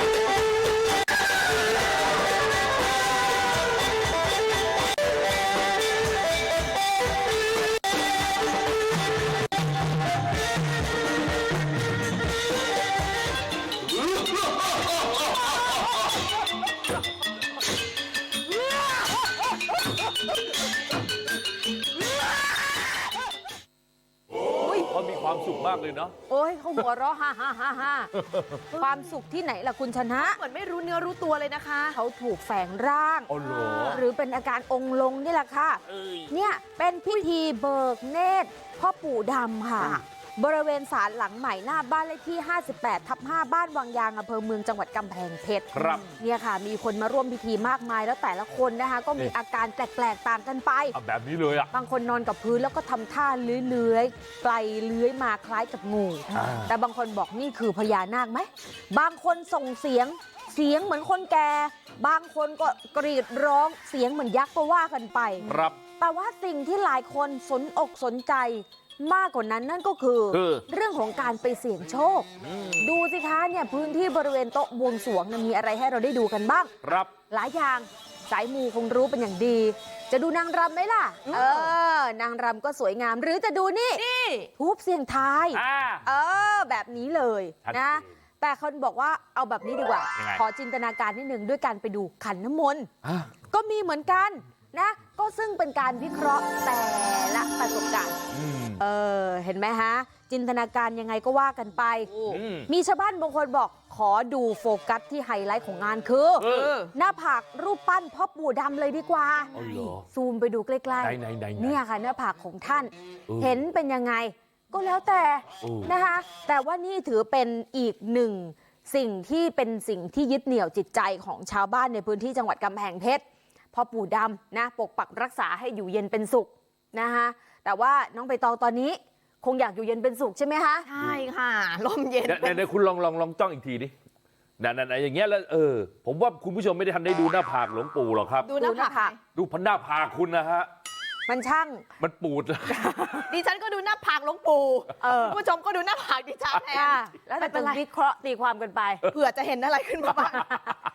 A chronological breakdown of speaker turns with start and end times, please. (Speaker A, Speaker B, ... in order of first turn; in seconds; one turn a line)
Speaker A: 24.8-26.1
Speaker B: 26.3-28.1
Speaker A: 28.2-28.6
Speaker B: 28.7-30.4
Speaker C: 30.2-31.9
Speaker B: 31.9-51.0
Speaker A: 33.3-34.0
Speaker C: 33.4-34.0
Speaker A: 35.9-36.2
Speaker A: 45.7-46.0
Speaker C: 45.8-46.1
Speaker A: 50.9-51.7
Speaker B: 51.7-76.7
Speaker A: 56.3-56.7
Speaker A: 65.4-65.8
Speaker A: 70.3-70.6
Speaker A: 72.4-72.9
Speaker A: 76.8-77.1
Speaker B: 77.3-84.0
Speaker C: 81.3-81.7
Speaker C: 84.0-84.5
Speaker B: 84.5-92.9
Speaker A: 85.5-86.0
Speaker A: 87.7-88.0
Speaker A: 90.2-90.4
Speaker A: 93.0-93.3
Speaker B: 93.5-98.2
Speaker A: 98.3-98.8
Speaker B: 98.8-130.9
Speaker A: 102.3-102.7
Speaker A: 106.4-106.8
Speaker C: 106.4-106.9
Speaker A: 109.5-110.0
Speaker A: 111.0-111.8
Speaker A: 113.3-113.6
Speaker A: 115.6-115.9
Speaker C: 130.8-132.7
Speaker A: 132.2-133.9
Speaker A: 134.6-138.5
Speaker C: 138.4-139.2
Speaker B: 138.6-139.1
Speaker A: 139.3-140.7
Speaker B: 141.3-141.9
Speaker A: 142.0-143.1
Speaker B: 142.7-143.2
Speaker C: 143.3-147.8
Speaker B: 145.0-145.4
Speaker B: 146.7-149.1
Speaker C: 149.1-150.6